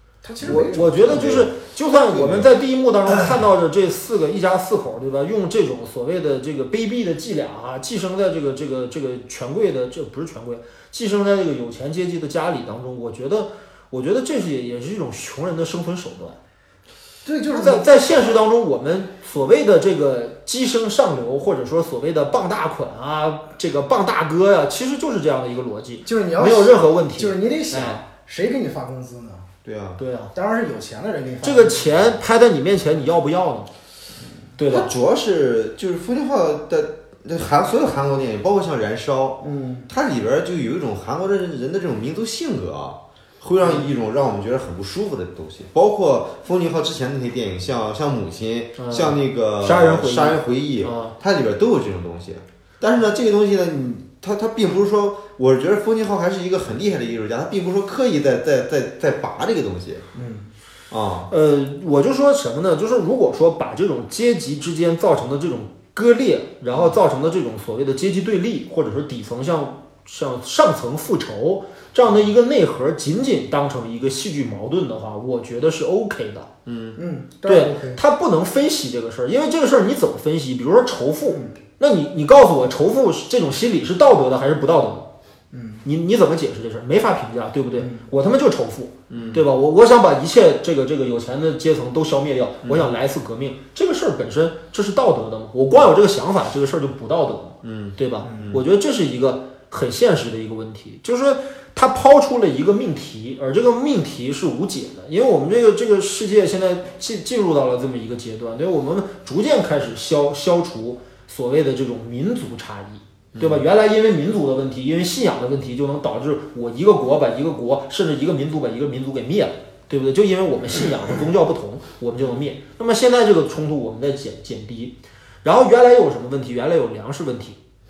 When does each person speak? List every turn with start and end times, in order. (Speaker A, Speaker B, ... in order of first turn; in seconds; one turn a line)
Speaker A: 0.2-1.4
Speaker B: 0.4-16.4
Speaker C: 1.0-1.5
Speaker C: 2.1-2.5
Speaker A: 17.2-18.3
Speaker B: 17.5-28.0
Speaker A: 26.1-29.5
Speaker C: 29.6-30.0
Speaker B: 30.0-30.3
Speaker A: 30.3-32.1
Speaker B: 31.4-33.7
Speaker B: 34.6-34.9
Speaker C: 34.7-60.0
Speaker A: 39.4-39.9
Speaker B: 48.8-51.1
Speaker A: 60.1-60.5
Speaker C: 60.9-61.3
Speaker B: 61.3-76.5
Speaker C: 76.7-77.0
Speaker A: 77.0-78.0
Speaker B: 77.5-85.1
Speaker A: 85.5-85.8
Speaker B: 85.8-127.6
Speaker A: 87.8-88.0
Speaker C: 89.1-89.4
Speaker C: 92.6-92.9
Speaker C: 97.6-98.6
Speaker C: 113.3-113.6